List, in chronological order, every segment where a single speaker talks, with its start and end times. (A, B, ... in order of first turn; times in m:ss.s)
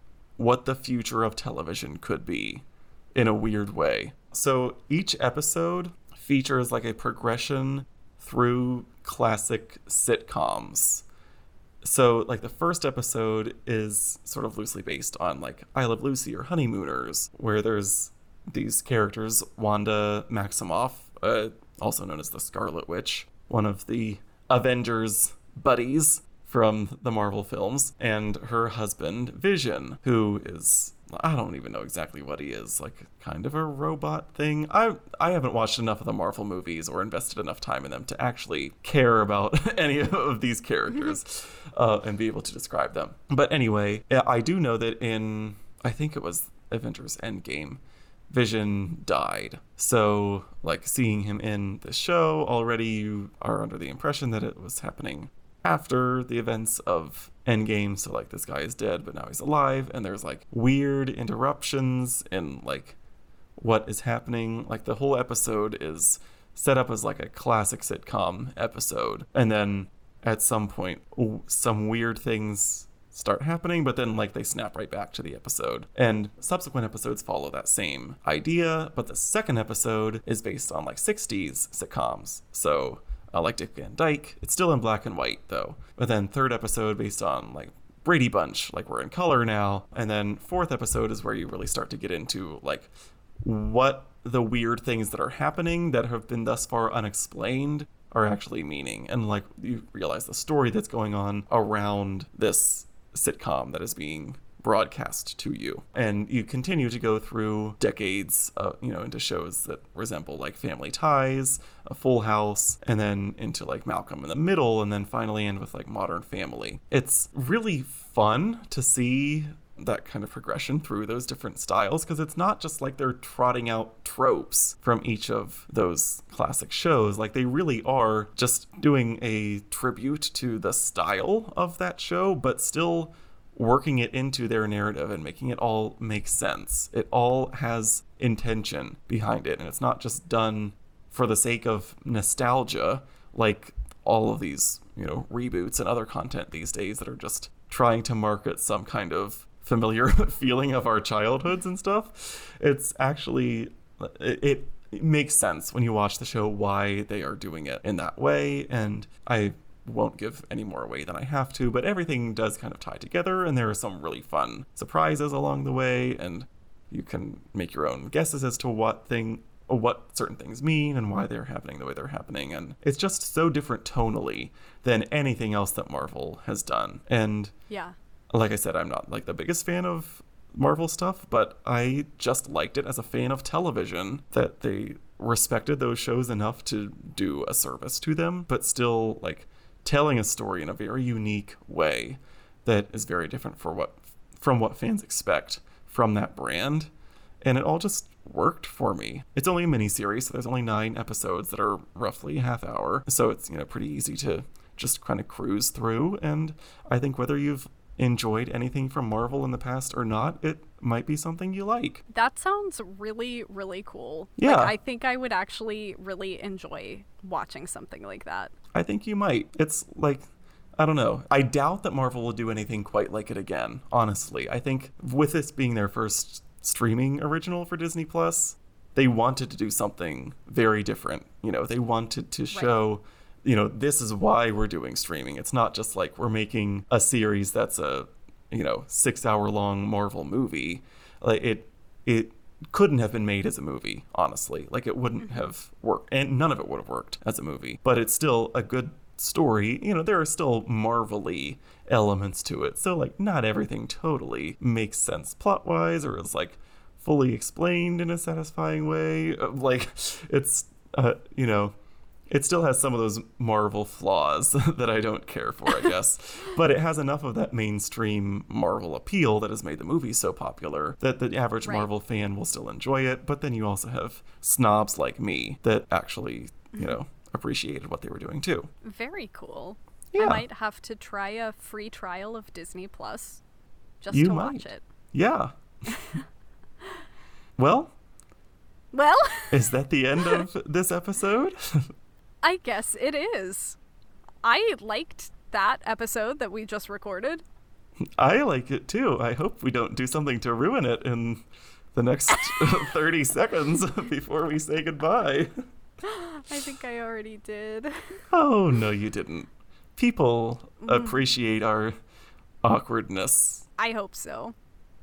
0:00.4-0:02.6 A
0:03.1-0:11.0 A
0:11.8-1:03.0 A
1:03.6-1:32.9 A
1:33.4-2:57.5 A
2:57.7-2:58.0 B
2:58.3-3:16.9 A
3:17.4-3:32.0 A
3:32.1-3:38.5 B
3:34.4-3:34.7 A
3:38.7-3:40.2 A
3:40.8-4:21.7 A
4:22.3-4:38.7 A
4:31.6-4:31.9 B
4:38.8-4:43.4 B
4:40.1-4:40.4 A
4:44.0-4:44.8 B
4:44.1-4:45.5 A
4:45.9-4:46.2 B
4:47.6-4:47.9 A
4:48.9-4:49.6 B
4:49.5-4:51.8 A
4:52.4-4:53.8 B
4:54.4-4:57.4 B
4:58.2-5:05.5 A
5:02.4-5:02.7 B
5:06.0-5:08.2 B
5:08.3-5:11.9 A
5:10.8-5:11.2 B
5:12.6-5:13.6 A
5:13.8-5:14.5 B